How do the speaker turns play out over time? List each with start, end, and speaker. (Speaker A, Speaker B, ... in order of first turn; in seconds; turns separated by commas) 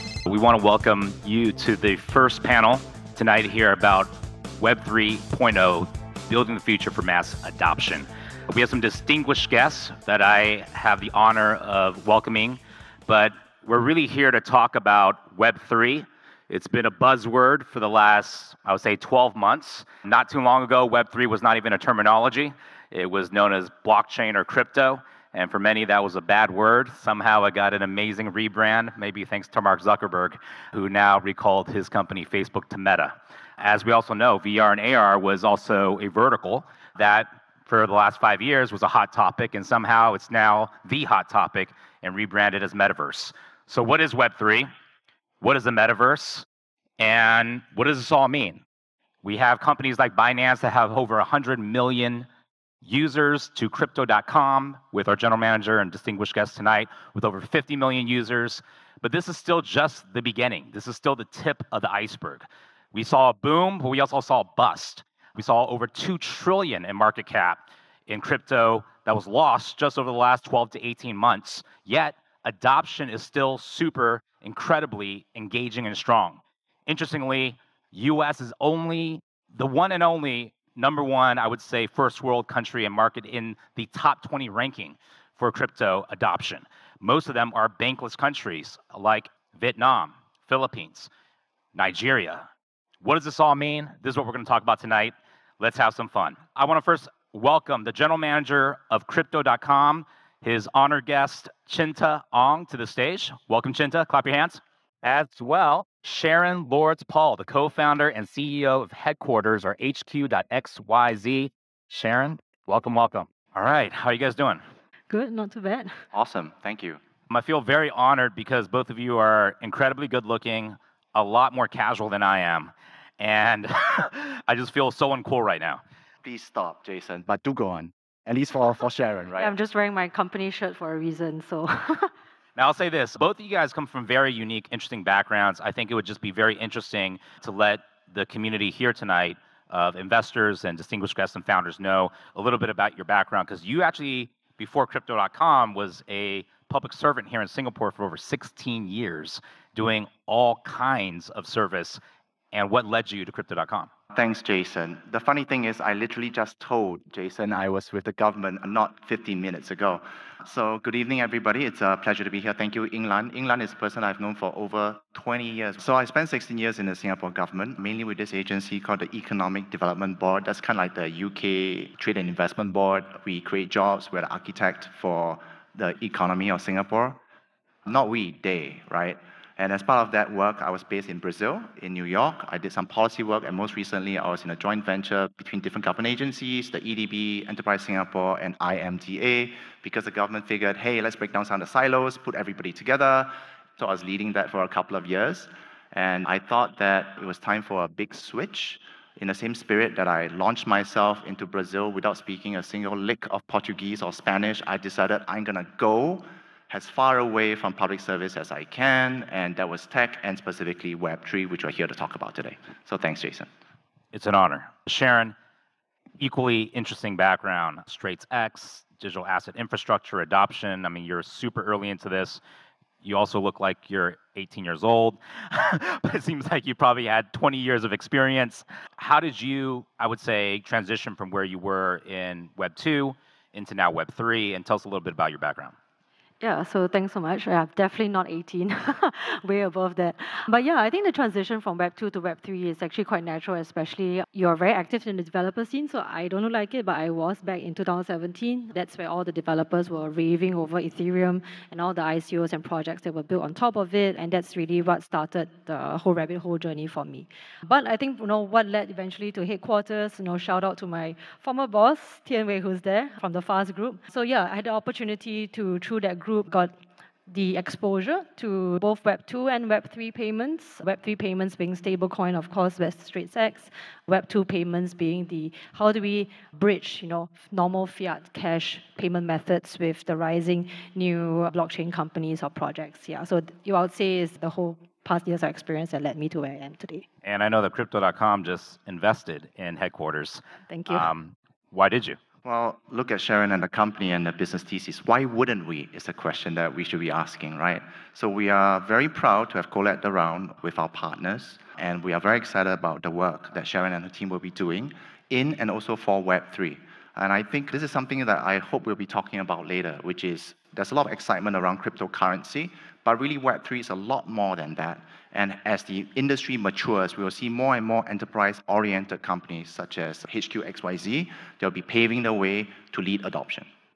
Speaker A: 0.2-44.7, Speaker A: 45.4-46.5, Speaker A: 47.0-48.6, Speaker A: 49.2-52.3, Speaker A: 52.8-91.1, Speaker A: 91.7-92.5, Speaker A: 93.0-114.6, Speaker B: 115.1-116.0, Speaker C: 116.1-117.0, Speaker A: 117.3-125.8, Speaker C: 126.2-129.5, Speaker B: 129.4-132.1, Speaker A: 132.6-152.0, Speaker A: 152.5-153.9, Speaker C: 154.1-177.2, Speaker C: 177.9-213.5, Speaker A: 214.1-215.3, Speaker A: 216.2-222.4, Speaker A: 223.0-235.7, Speaker B: 236.4-266.7, Speaker B: 267.3-287.1, Speaker A: 287.2-292.2, Speaker B: 290.7-291.1, Speaker C: 292.4-323.7